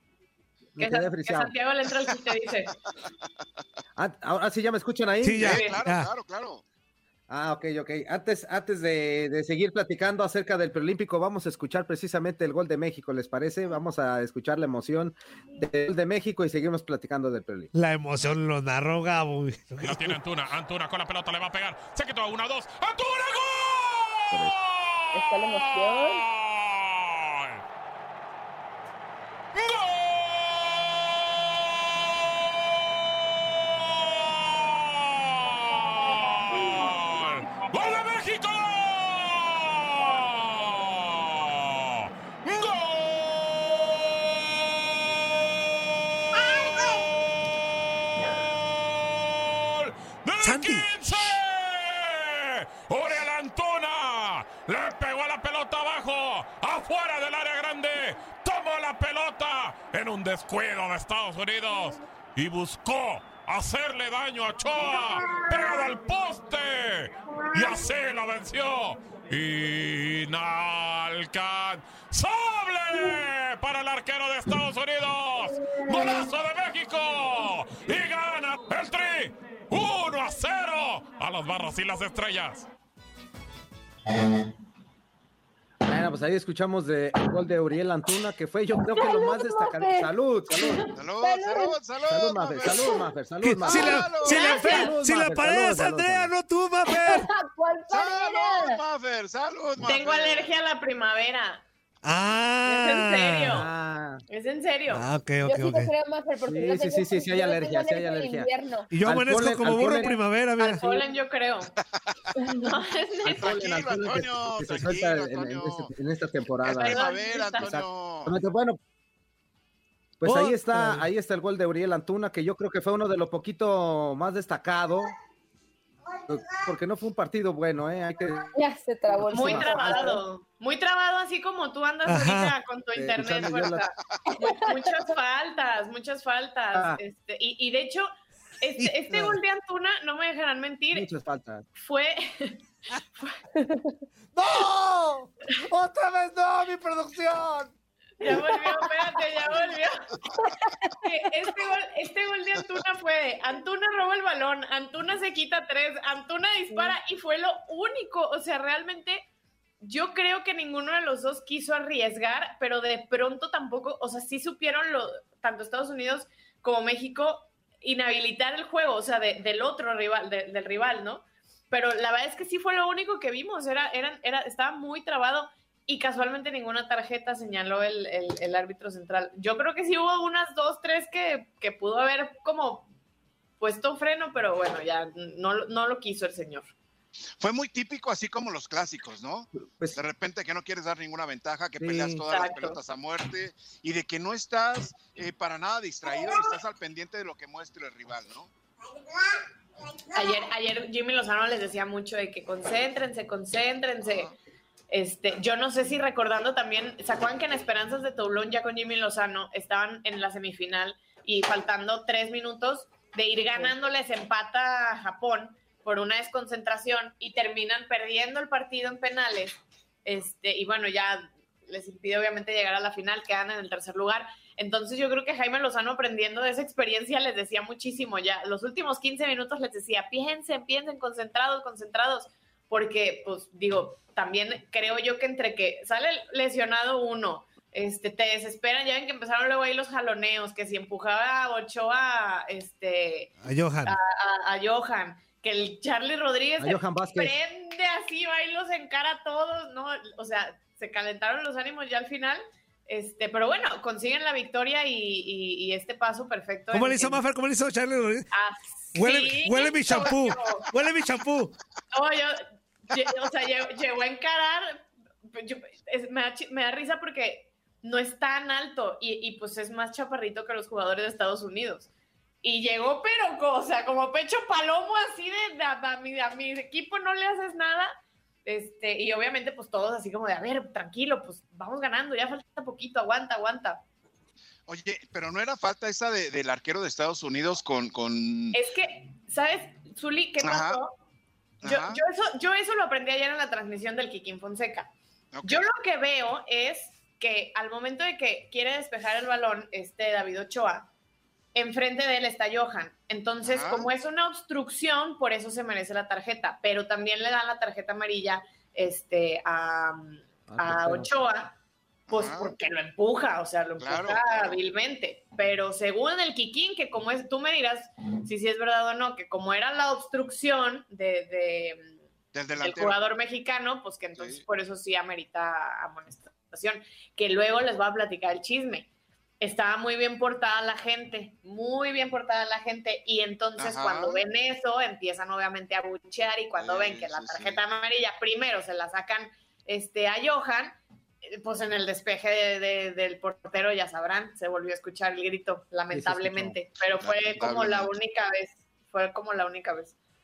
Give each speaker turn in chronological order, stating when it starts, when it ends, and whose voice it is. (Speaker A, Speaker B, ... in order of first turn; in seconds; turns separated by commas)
Speaker A: 0.8-1.5, Speaker B: 0.8-2.7, Speaker A: 4.0-5.6, Speaker C: 5.2-6.1, Speaker D: 5.4-6.6, Speaker B: 5.4-5.8, Speaker A: 7.3-17.7, Speaker C: 17.7-20.2, Speaker E: 19.8-27.6, Speaker F: 25.1-26.2, Speaker E: 29.5-82.7, Speaker C: 50.4-50.9, Speaker A: 85.8-90.8, Speaker F: 88.9-91.7, Speaker D: 91.0-93.0, Speaker A: 92.0-96.3, Speaker C: 93.4-97.3, Speaker D: 93.7-94.6, Speaker B: 93.7-94.9, Speaker F: 94.3-94.6, Speaker F: 97.0-98.8, Speaker D: 97.9-100.5, Speaker B: 99.8-101.6, Speaker C: 102.0-103.6, Speaker B: 102.7-103.7, Speaker A: 103.5-104.2, Speaker B: 104.3-105.0, Speaker C: 104.9-105.9, Speaker F: 105.4-108.9, Speaker A: 106.4-108.5, Speaker C: 108.9-110.9, Speaker A: 109.0-110.2, Speaker B: 110.6-111.7, Speaker B: 112.5-113.6, Speaker A: 113.2-117.0, Speaker D: 113.3-115.9, Speaker D: 116.6-118.3, Speaker B: 116.7-117.8, Speaker A: 117.6-118.8, Speaker A: 120.2-125.1, Speaker C: 120.2-121.1, Speaker A: 126.3-128.5, Speaker F: 128.5-130.2, Speaker A: 129.1-130.1, Speaker B: 129.3-138.1, Speaker C: 132.1-132.5, Speaker A: 132.9-133.9, Speaker A: 136.7-137.0, Speaker B: 138.6-141.1, Speaker C: 138.8-139.4, Speaker A: 140.9-141.6, Speaker B: 141.8-142.6, Speaker F: 143.5-143.9, Speaker C: 144.3-147.7, Speaker B: 148.2-150.1, Speaker F: 150.4-150.9, Speaker B: 151.0-159.2, Speaker B: 159.8-182.9, Speaker B: 183.6-186.7, Speaker D: 187.4-198.5, Speaker A: 189.6-190.0, Speaker A: 191.8-192.2, Speaker B: 192.3-192.8, Speaker B: 200.1-204.3, Speaker B: 204.9-257.2, Speaker C: 243.4-243.9, Speaker A: 246.6-247.3, Speaker C: 256.7-258.3, Speaker B: 258.3-260.7, Speaker C: 258.9-261.5, Speaker B: 261.9-271.9, Speaker B: 272.4-277.9, Speaker B: 278.4-283.8, Speaker D: 284.7-288.6, Speaker B: 288.5-290.9, Speaker D: 290.4-290.8, Speaker D: 291.6-292.0, Speaker B: 291.6-294.9, Speaker D: 295.3-295.7, Speaker B: 295.4-300.9, Speaker B: 301.5-311.5, Speaker D: 303.4-303.9, Speaker A: 310.5-311.1, Speaker D: 312.1-312.5, Speaker B: 312.1-321.9, Speaker D: 313.8-314.5, Speaker D: 322.3-323.0, Speaker B: 322.5-328.9, Speaker D: 324.2-324.4, Speaker B: 329.4-349.9, Speaker D: 333.6-334.2, Speaker D: 336.5-337.6, Speaker A: 345.9-346.6, Speaker D: 346.9-347.9